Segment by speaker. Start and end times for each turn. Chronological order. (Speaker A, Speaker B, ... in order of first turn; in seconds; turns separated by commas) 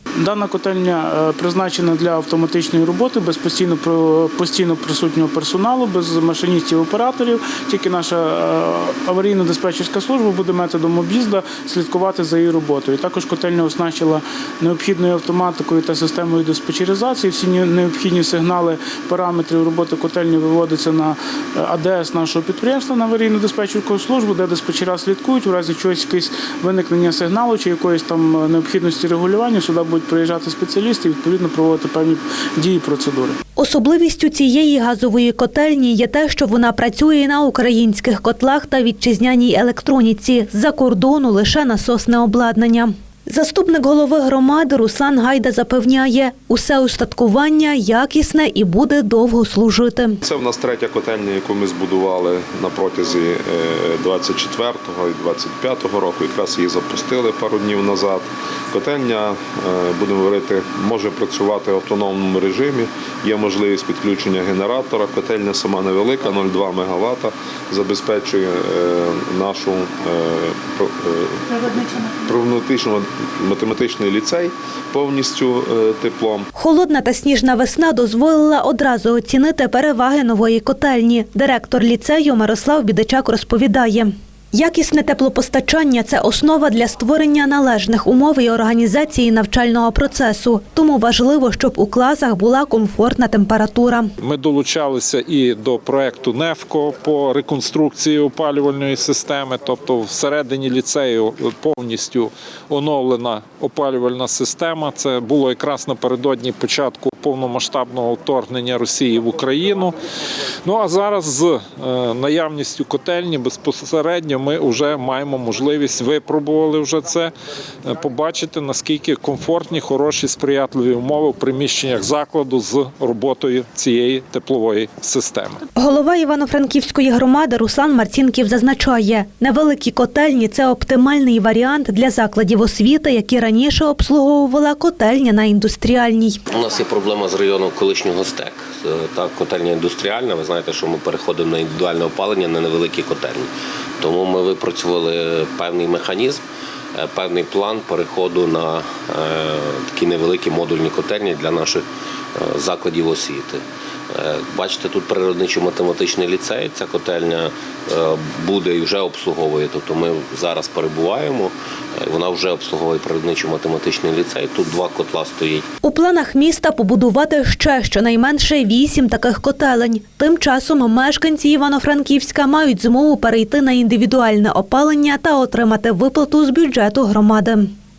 Speaker A: 0.2-33.4, Speaker B: 33.6-50.2, Speaker C: 50.2-76.5, Speaker B: 76.5-94.1, Speaker D: 94.2-110.0, Speaker D: 110.6-117.3, Speaker D: 117.8-125.6, Speaker B: 125.8-136.4, Speaker E: 136.5-146.4, Speaker E: 146.9-151.8, Speaker E: 152.3-165.7, Speaker B: 165.8-177.7